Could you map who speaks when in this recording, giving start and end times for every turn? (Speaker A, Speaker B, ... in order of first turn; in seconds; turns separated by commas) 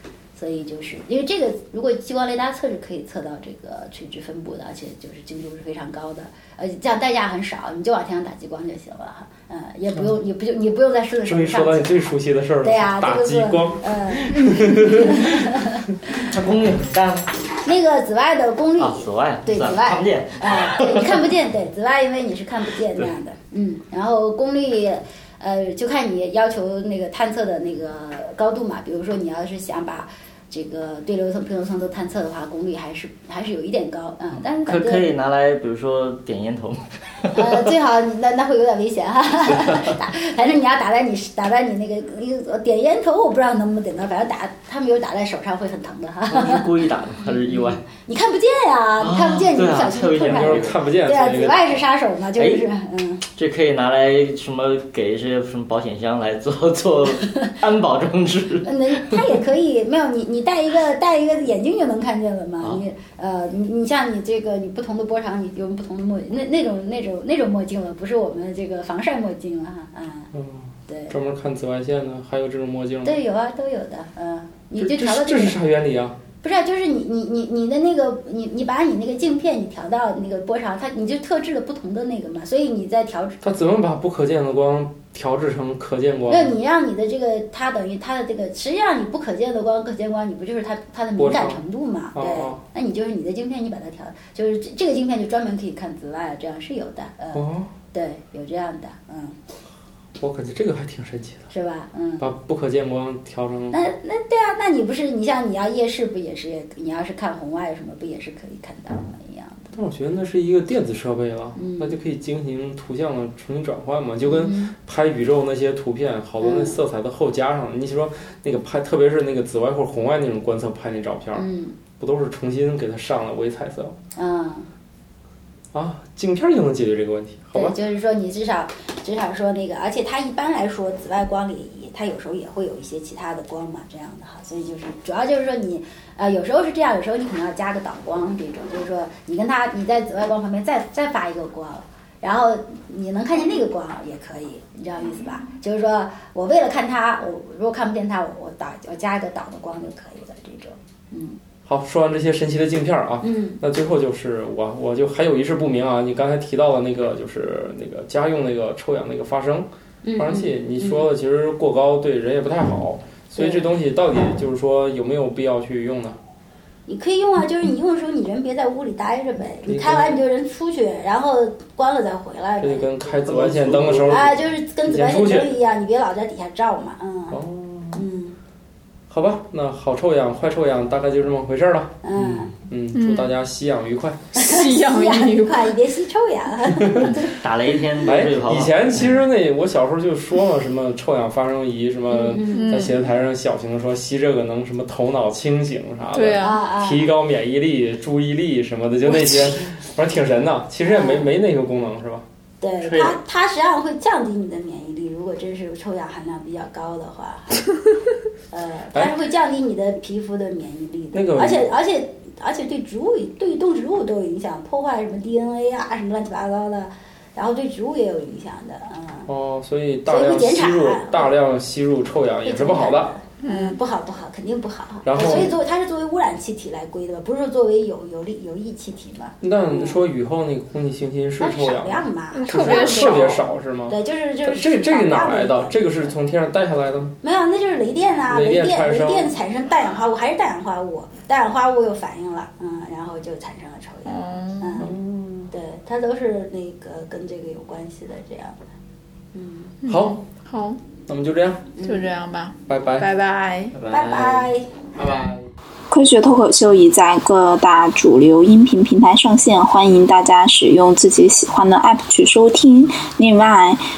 Speaker A: 0.3-12.1, Speaker B: 11.3-15.5, Speaker A: 12.6-15.8, Speaker C: 16.3-17.3, Speaker A: 17.6-35.1, Speaker C: 18.8-21.3, Speaker C: 34.6-37.7, Speaker A: 37.3-46.7, Speaker C: 39.6-39.8, Speaker C: 46.3-47.8, Speaker A: 47.2-53.2, Speaker C: 49.0-50.8, Speaker B: 50.3-51.6, Speaker C: 52.4-52.6, Speaker C: 53.3-59.2, Speaker A: 58.6-70.3, Speaker B: 70.3-73.2, Speaker A: 70.9-71.2, Speaker A: 73.0-75.6, Speaker B: 74.8-76.2, Speaker A: 76.4-83.4, Speaker B: 83.4-86.5, Speaker A: 86.3-99.4, Speaker B: 91.2-91.6, Speaker B: 92.2-92.6, Speaker B: 97.3-97.7, Speaker B: 100.2-101.5, Speaker A: 101.5-102.3, Speaker B: 102.2-103.8, Speaker A: 103.7-109.7, Speaker B: 109.7-124.0, Speaker A: 111.5-112.0, Speaker A: 114.2-114.8, Speaker A: 116.4-116.8, Speaker A: 121.3-121.8, Speaker A: 124.2-124.7, Speaker B: 125.7-127.8, Speaker A: 127.5-151.4, Speaker B: 151.7-166.2, Speaker A: 153.2-153.6, Speaker A: 160.0-161.1, Speaker A: 163.4-163.7, Speaker A: 166.9-177.4, Speaker B: 169.7-170.2, Speaker B: 172.6-175.5, Speaker C: 173.7-174.1, Speaker B: 177.3-178.0, Speaker A: 177.9-178.4, Speaker B: 179.1-181.9, Speaker A: 182.0-182.5, Speaker B: 182.6-184.2, Speaker D: 182.9-183.3, Speaker D: 184.4-185.7, Speaker A: 184.4-187.4, Speaker B: 186.8-187.1, Speaker C: 187.1-189.2, Speaker B: 188.1-202.2, Speaker A: 192.1-192.9, Speaker D: 192.5-193.0, Speaker D: 196.1-196.6, Speaker A: 196.4-197.1, Speaker A: 200.9-201.3, Speaker A: 202.6-207.7, Speaker A: 208.5-219.3, Speaker B: 211.1-211.7, Speaker B: 219.3-223.1, Speaker A: 220.1-221.3, Speaker A: 222.4-230.0, Speaker D: 223.4-223.8, Speaker B: 225.1-225.6, Speaker B: 229.4-237.1, Speaker A: 231.4-236.2, Speaker D: 232.3-233.3, Speaker A: 237.2-248.6, Speaker B: 238.3-239.4, Speaker D: 244.1-244.8, Speaker B: 244.8-245.4, Speaker A: 249.3-249.8, Speaker D: 249.8-250.8, Speaker B: 249.9-250.2, Speaker B: 251.1-251.7, Speaker A: 251.8-252.1, Speaker D: 251.8-253.8, Speaker B: 252.7-253.1, Speaker B: 253.8-254.4, Speaker A: 253.9-254.7, Speaker B: 255.0-255.4, Speaker E: 255.9-263.8